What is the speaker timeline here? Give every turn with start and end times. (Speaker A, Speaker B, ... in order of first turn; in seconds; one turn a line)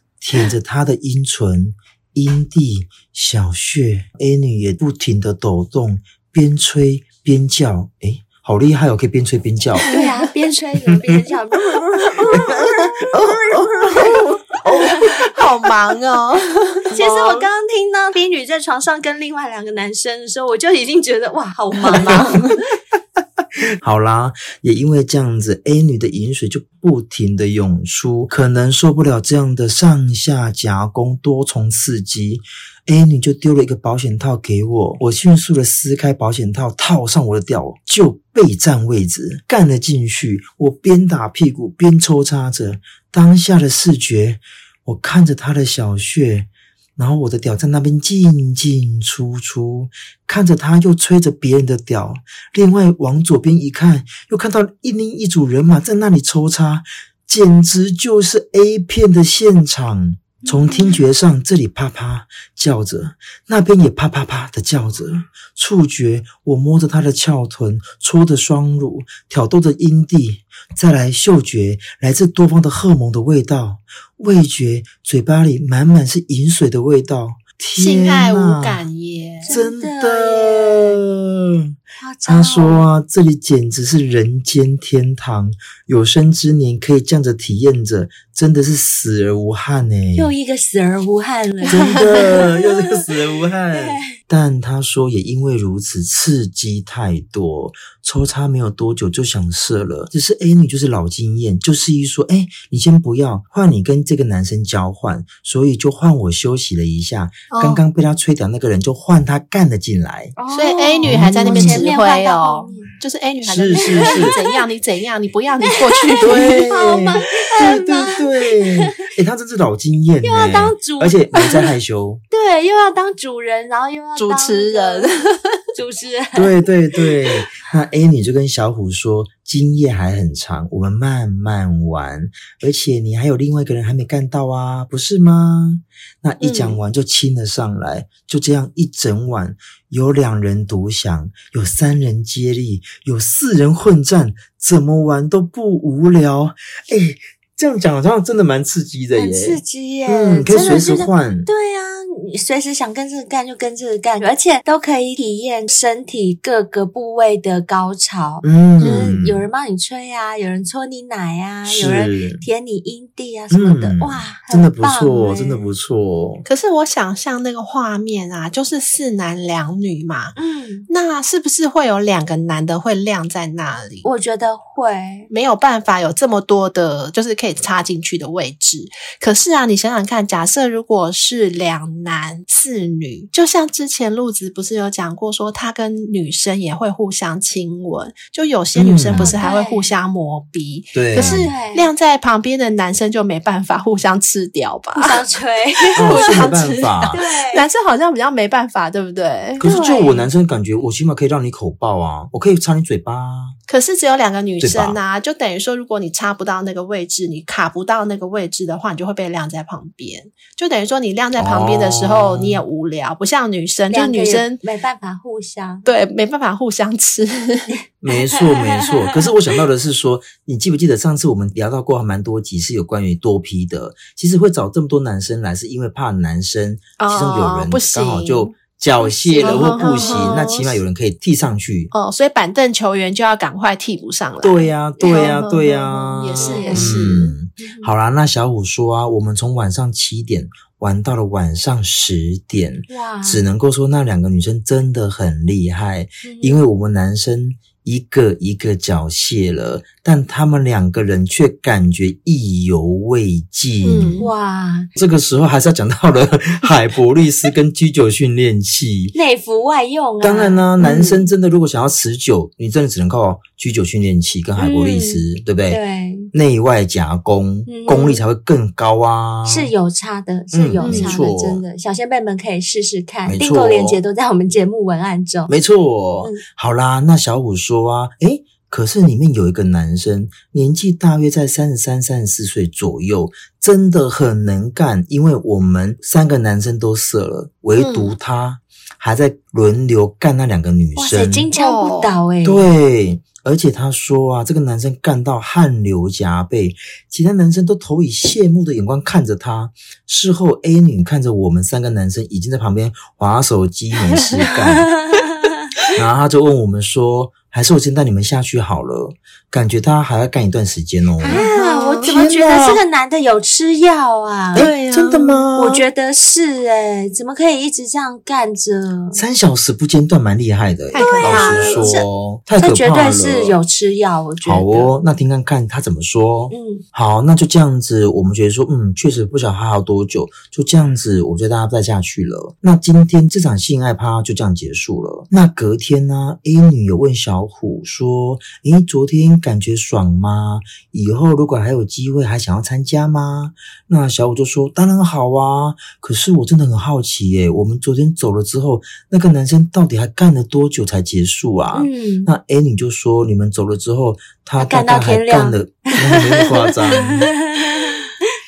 Speaker A: 0.2-9.9
Speaker B: 9.9-13.2
Speaker A: 12.4-14.3
Speaker C: 13.2-16.9
Speaker B: 16.9-22.6
Speaker A: 16.9-17.5
Speaker A: 23.8-78.8
Speaker B: 60.5-61.0
Speaker C: 77.8-79.5
Speaker B: 79.4-81.0
Speaker A: 79.5-81.7
Speaker B: 82.0-82.9
Speaker A: 82.3-90.3
Speaker B: 90.2-93.0
Speaker A: 91.7-110.3
Speaker B: 93.7-94.2
Speaker C: 107.5-107.8
Speaker B: 110.4-112.9
Speaker C: 110.5-116.7
Speaker A: 111.0-111.9
Speaker A: 113.4-114.4
Speaker B: 113.7-114.6
Speaker B: 115.7-119.0
Speaker A: 116.2-122.2
Speaker B: 120.2-121.2
Speaker B: 122.3-125.1
Speaker C: 124.2-125.6
Speaker B: 125.8-126.5
Speaker A: 126.3-151.5
Speaker C: 136.4-136.8
Speaker B: 149.2-165.7
Speaker A: 158.4-159.5
Speaker C: 158.8-159.2
Speaker A: 161.7-162.4
Speaker A: 163.5-166.5
Speaker C: 166.5-170.4
Speaker B: 170.4-170.9
Speaker C: 170.9-174.1
Speaker B: 174.0-175.3
Speaker C: 175.3-195.2
Speaker A: 188.8-189.4
Speaker B: 189.2-189.9
Speaker A: 190.9-191.5
Speaker B: 191.2-191.9
Speaker B: 194.9-196.6
Speaker C: 195.8-199.7
Speaker A: 196.0-197.2
Speaker B: 197.1-197.7
Speaker A: 199.6-203.6
Speaker B: 199.6-200.3
Speaker C: 203.7-214.6
Speaker A: 204.6-205.0
Speaker A: 211.4-212.6
Speaker B: 213.9-215.8
Speaker C: 215.8-217.7
Speaker A: 218.0-231.9
Speaker B: 218.1-219.2
Speaker C: 227.0-228.6
Speaker B: 229.0-230.5
Speaker C: 229.4-230.8
Speaker C: 231.9-237.3
Speaker A: 234.4-254.3
Speaker B: 235.0-235.4
Speaker B: 236.4-237.0
Speaker B: 237.6-237.9
Speaker B: 242.9-243.4
Speaker B: 246.2-246.6
Speaker C: 253.8-254.3
Speaker B: 254.2-254.9
Speaker A: 254.9-259.1
Speaker B: 259.1-261.2
Speaker A: 260.2-265.8
Speaker B: 264.6-266.3
Speaker A: 266.3-269.7
Speaker B: 267.7-268.2
Speaker B: 269.4-275.5
Speaker A: 270.5-271.6
Speaker C: 270.8-271.2
Speaker A: 273.2-274.0
Speaker A: 275.5-291.5
Speaker C: 287.8-288.2
Speaker B: 291.0-292.7
Speaker C: 291.5-292.1
Speaker A: 292.4-304.9
Speaker C: 304.2-304.5
Speaker B: 304.5-305.6
Speaker A: 305.9-311.4
Speaker B: 311.2-314.7
Speaker C: 311.2-312.1
Speaker A: 312.0-312.8
Speaker A: 314.5-315.9
Speaker C: 314.6-315.4
Speaker B: 315.6-319.2
Speaker A: 319.1-323.6
Speaker C: 320.9-321.9
Speaker B: 320.9-324.9
Speaker A: 324.4-357.3
Speaker B: 326.5-326.8
Speaker B: 351.7-352.3
Speaker B: 354.6-356.0
Speaker B: 356.9-358.0